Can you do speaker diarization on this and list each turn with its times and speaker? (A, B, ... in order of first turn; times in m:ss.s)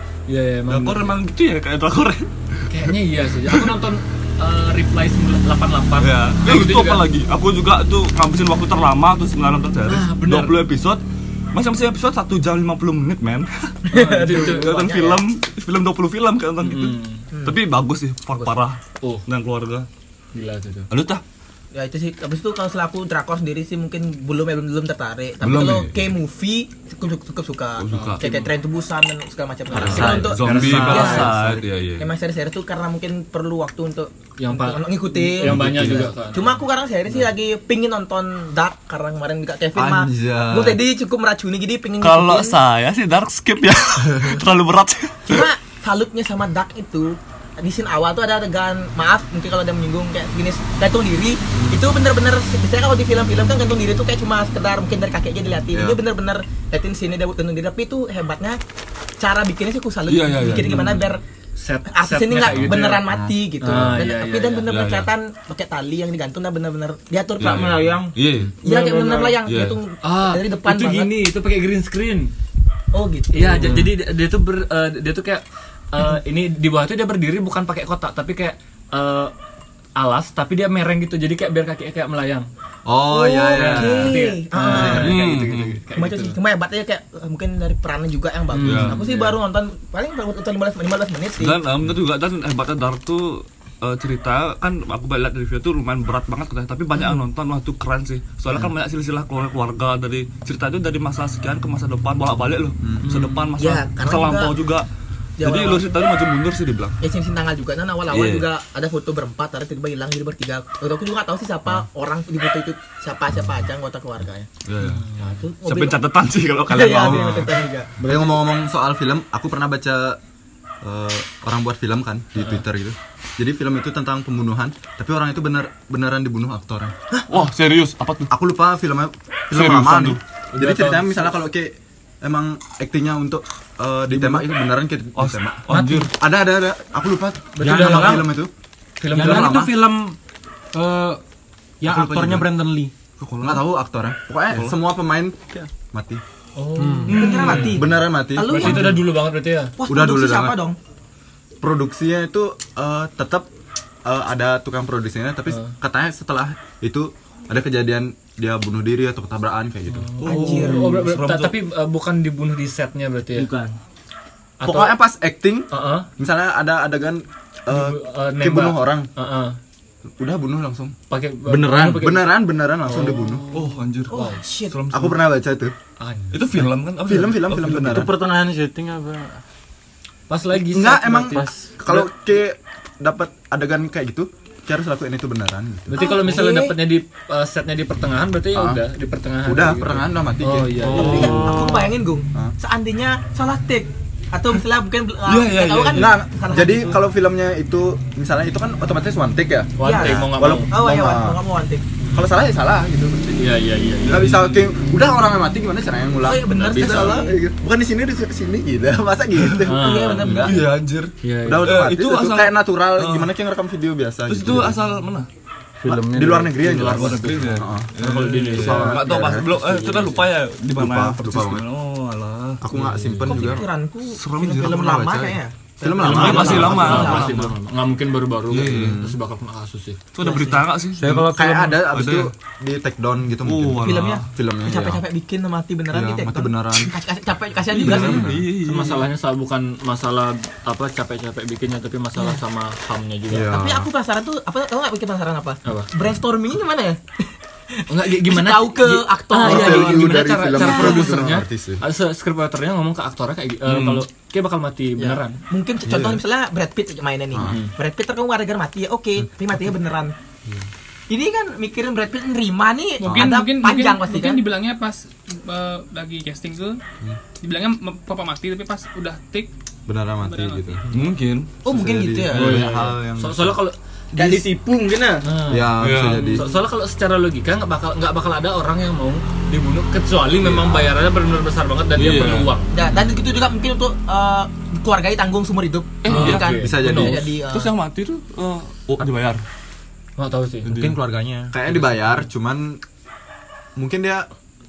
0:00.3-0:01.2 A
0:00.7-0:02.8 B
0:02.7-0:07.1 A
0:06.0-0:11.0 B
0:09.9-0:10.6 A
0:11.5-0:19.9 B
0:13.9-0:14.7 A
0:13.9-0:15.2 C
0:16.6-0:17.3 A
0:17.3-0:17.6 C
0:20.3-0:20.9 A
0:20.9-0:21.2 B
0:21.7-0:42.6 C
0:25.4-0:26.0 B
0:27.8-0:28.3 B
0:27.9-0:28.5 A
0:29.7-0:31.4 A
0:29.7-0:32.1 B
0:29.8-0:30.2 D
0:29.9-0:30.4 E
0:34.4-0:36.6 A
0:35.4-0:36.1 B
0:39.8-0:40.8 D
0:42.0-0:45.4 B
0:45.3-0:58.6 C
0:55.7-0:56.0 D
0:59.2-1:01.2 C
1:00.1-1:01.0 B
1:01.6-1:03.0 A
1:01.9-1:08.0 C
1:02.4-1:02.8 B
1:03.1-1:03.8 D
1:03.6-1:04.7 A
1:04.7-1:05.1 B
1:07.4-1:08.6 B
1:07.4-1:09.4 F
1:08.6-1:11.1 C
1:09.4-1:09.8 B
1:10.0-1:12.3 A
1:12.9-1:13.8 C
1:13.3-1:19.3 A
1:20.0-1:22.5 A
1:22.9-1:24.2 D
1:23.1-1:25.2 C
1:23.5-1:26.4 A
1:24.7-1:25.1 D
1:24.8-1:25.8 B
1:26.0-1:31.6 C
1:28.5-1:29.4 A
1:28.6-1:29.0 B
1:31.4-1:47.0 B
1:43.1-1:43.4 A
1:43.6-1:44.6 C
1:45.4-1:46.0 C
1:47.0-1:54.5 C
1:48.1-1:48.5 B
1:54.7-1:55.1 B
1:54.8-1:55.4 A
1:55.2-1:58.0 C
1:55.6-1:57.5 B
1:57.0-1:57.4 D
1:58.0-2:00.2 D
2:00.8-2:06.9 D
2:02.4-2:02.6 A
2:07.3-2:08.3 B
2:08.3-2:15.6 D
2:09.5-2:10.2 B
2:10.5-2:11.4 A
2:15.2-2:16.1 B
2:15.7-2:16.1 G
2:16.2-2:18.5 D
2:17.6-2:18.3 A
2:17.6-2:18.3 G
2:19.0-2:19.6 A
2:19.1-2:19.7 D
2:19.1-2:20.2 G
2:20.7-2:21.2 G
2:21.8-2:22.9 G
2:21.8-2:22.5 D
2:23.2-2:23.6 B
2:23.4-2:26.2 D
2:24.5-2:24.8 B
2:26.6-2:27.8 A
2:26.8-2:27.2 G
2:27.1-2:27.8 B
2:27.1-2:29.1 C
2:27.7-2:29.0 D
2:28.5-2:29.7 A
2:29.8-2:30.8 C
2:29.9-2:30.6 D
2:31.6-2:33.5 D
2:34.0-2:40.1 D
2:35.5-2:35.7 A
2:39.9-2:43.5 A
2:40.2-2:41.6 B
2:40.2-2:41.1 C
2:43.3-2:43.8 F
2:44.6-2:45.0 A
2:44.6-2:49.1 D
2:45.7-2:46.1 A
2:47.7-2:49.6 A
2:50.2-2:51.0 D
2:51.1-2:54.4 A
2:51.5-2:52.0 E
2:51.8-2:53.4 D
2:53.5-2:55.2 B
2:54.1-2:54.8 C
2:54.9-2:55.8 D
2:56.0-2:56.7 A
2:56.3-2:58.1 B
2:57.1-2:58.1 D
2:57.8-2:59.4 E
3:00.3-3:02.1 A
3:00.7-3:06.0 D
3:01.3-3:01.7 E
3:05.9-3:11.9 A
3:06.0-3:06.8 C
3:08.5-3:08.8 D
3:09.4-3:11.4 D
3:10.9-3:17.0 C
3:15.3-3:16.2 B
3:15.9-3:21.4 D
3:19.8-3:20.7 A
3:19.8-3:21.9 C
3:22.1-3:23.5 D
3:23.4-3:24.5 A
3:24.0-3:30.8 D
3:26.2-3:27.4 C
3:26.7-3:27.2 A
3:29.5-3:30.8 C
3:29.7-3:30.5 A
3:30.3-3:33.3 B
3:31.2-3:31.8 A
3:31.4-3:34.8 D
3:34.3-3:35.3 B
3:35.8-3:37.5 E
3:35.9-3:37.9 D
3:36.7-3:40.2 A
3:36.8-3:42.6 B
3:38.6-3:39.5 D
3:40.8-3:41.6 D
3:42.6-3:43.7 D
3:42.7-3:43.3 A
3:43.2-3:47.4 C
3:43.3-3:45.3 B
3:45.8-3:47.2 D
3:46.0-3:50.1 A
3:46.0-3:47.5 B
3:48.5-3:49.0 B
3:48.6-3:49.2 D
3:50.1-3:51.3 B
3:50.2-3:50.6 C
3:51.0-3:51.8 G
3:51.1-3:55.0 D
3:51.9-3:52.3 B
3:53.4-3:54.3 B
3:53.8-3:58.4 C
3:55.9-3:56.9 D
3:57.7-3:59.1 B
3:57.8-3:58.4 D
3:57.8-4:03.5 A
4:03.3-4:03.9 D
4:03.4-4:11.2 C
4:05.6-4:05.9 A
4:07.9-4:15.4 A
4:09.4-4:11.8 D
4:13.7-4:14.1 B
4:15.0-4:20.1 C
4:15.9-4:16.1 D
4:17.3-4:17.6 D
4:21.1-4:24.4 C
4:23.0-4:26.8 H
4:27.4-4:29.5 H
4:29.9-4:30.8 D
4:30.2-4:30.8 H
4:30.9-4:31.5 B
4:31.6-4:32.8 C
4:31.6-4:33.6 D
4:32.3-4:33.8 A
4:32.4-4:32.8 B
4:34.1-4:35.2 C
4:34.2-4:35.2 F
4:35.2-4:42.7 A
4:35.5-4:36.4 D
4:35.8-4:36.4 B
4:40.4-4:40.9 D
4:41.9-4:42.5 B
4:42.7-4:47.8 C
4:46.0-4:47.2 A
4:46.0-4:49.4 B
4:46.2-4:47.3 D
4:50.2-4:50.7 A
4:50.6-4:51.0 B
4:50.6-4:51.5 G
4:51.5-4:52.8 D
4:53.8-4:54.3 D